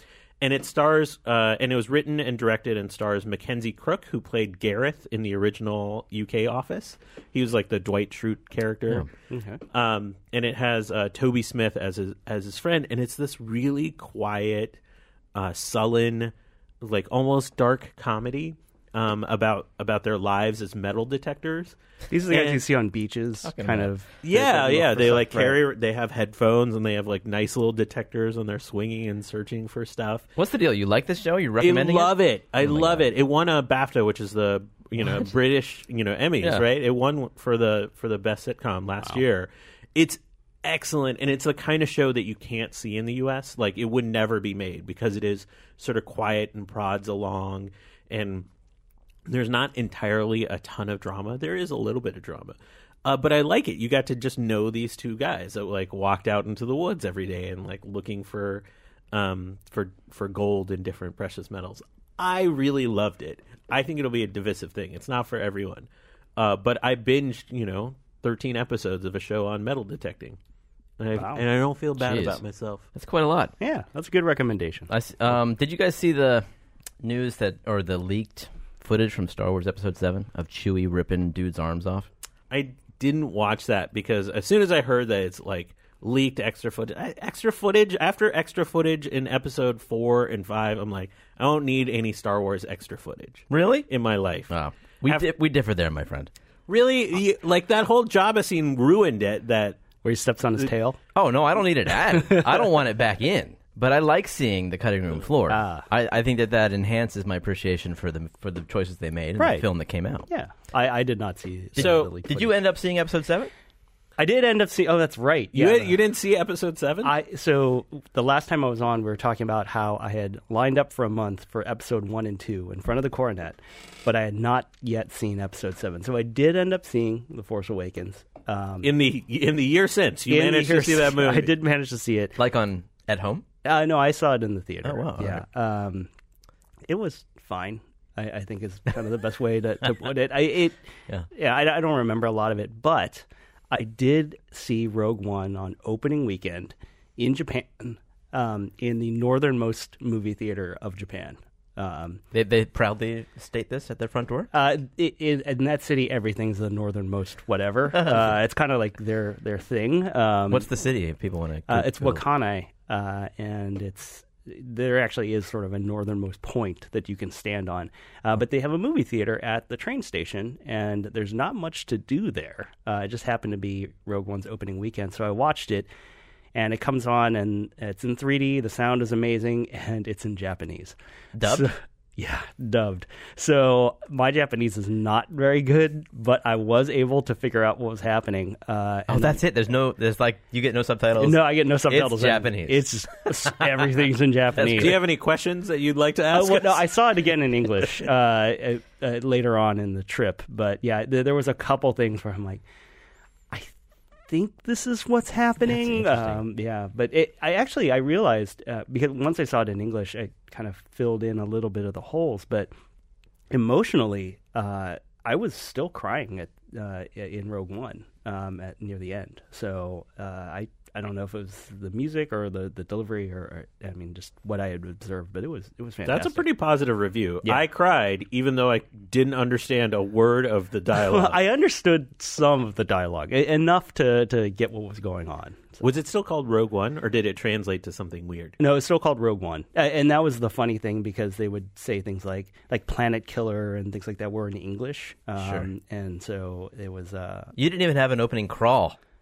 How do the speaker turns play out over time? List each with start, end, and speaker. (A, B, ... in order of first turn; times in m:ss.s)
0:00.4-0:09.1 A
0:09.3-0:09.6 B
0:09.7-0:14.8 A
0:15.4-0:21.8 A
0:22.1-0:25.6 B
0:22.3-0:22.6 A
0:23.4-0:23.9 C
0:24.2-0:30.3 A
0:30.4-0:33.1 C
0:31.6-0:48.5 A
0:49.3-1:10.4 A
1:11.0-1:12.8 A
1:11.2-1:11.4 B
1:12.0-1:12.4 C
1:13.0-1:13.5 C
1:13.6-1:14.9 B
1:14.9-1:16.5 C
1:17.0-1:22.1 C
1:22.5-1:34.5 A
1:33.5-1:33.9 C
1:34.5-1:36.3 C
1:36.7-1:39.8 A
1:40.0-1:41.0 B
1:41.2-1:50.3 C
1:42.2-1:42.5 B
1:45.5-1:45.9 B
1:49.4-1:49.7 B
1:50.3-1:52.5 B
1:51.8-1:52.1 A
1:51.8-1:53.5 C
1:54.2-1:56.0 B
1:55.5-1:57.1 A
1:57.0-2:08.9 B
2:08.8-2:11.5 A
2:10.3-2:12.4 B
2:12.4-2:13.4 C
2:13.6-2:16.1 B
2:14.8-2:15.4 C
2:16.9-2:32.2 B
2:32.3-2:34.5 C
2:34.5-2:40.7 B
2:40.5-2:42.2 C
2:41.7-2:55.9 B
2:56.6-3:09.4 B
3:01.4-3:01.7 C
3:09.1-3:13.9 C
3:11.2-3:15.0 B
3:14.6-3:15.0 C
3:14.7-3:16.9 A
3:16.3-3:22.6 B
3:24.3-3:32.7 B
3:25.7-3:26.4 C
3:33.5-3:46.4 B
3:46.1-3:51.4 A
3:50.9-3:55.8 B
3:55.8-3:58.6 A
3:58.6-4:07.5 B
4:07.6-4:09.0 C